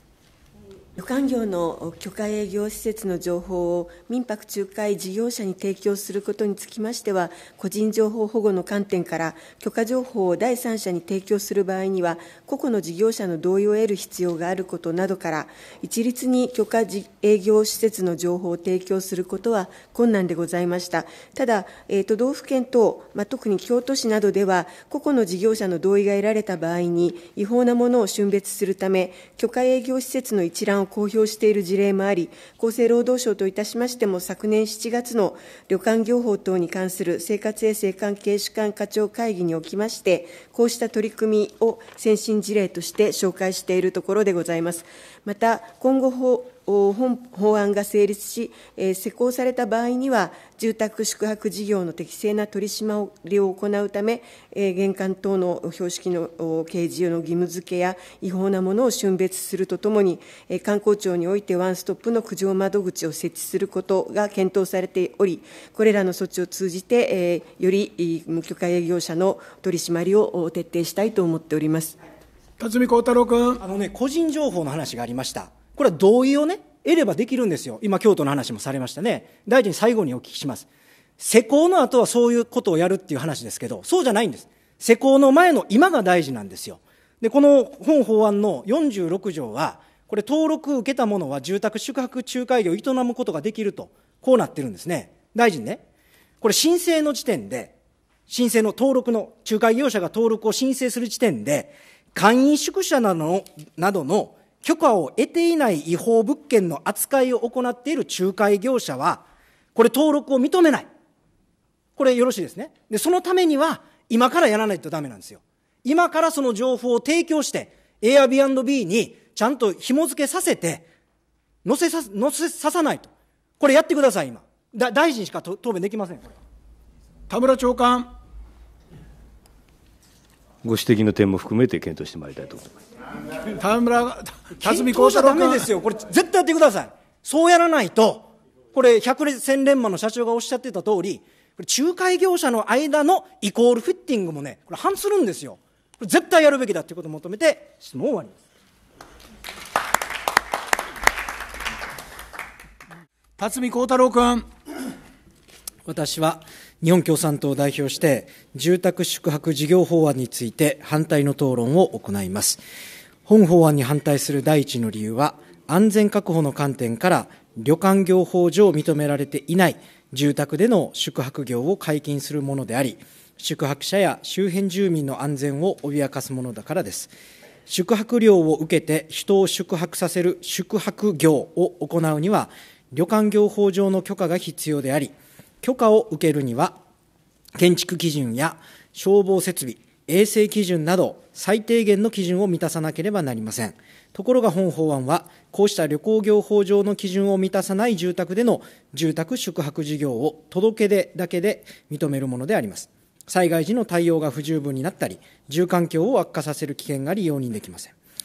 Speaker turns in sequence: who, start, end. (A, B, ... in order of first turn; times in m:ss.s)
0:01.0-1:12.0 A
1:12.6-1:13.6 B
1:13.6-1:20.7 C
1:21.2-1:35.8 C
1:36.4-1:37.7 C
1:38.3-1:50.9 C
1:52.0-2:00.9 C
2:01.6-2:06.3 C
2:07.3-2:08.1 B
2:10.6-2:12.8 D
2:13.4-2:15.7 B
2:14.6-2:28.4 C
2:33.4-2:34.4 B
2:35.8-2:42.6 C
2:43.3-2:57.1 C
2:57.7-3:06.8 C
3:07.6-3:27.9 C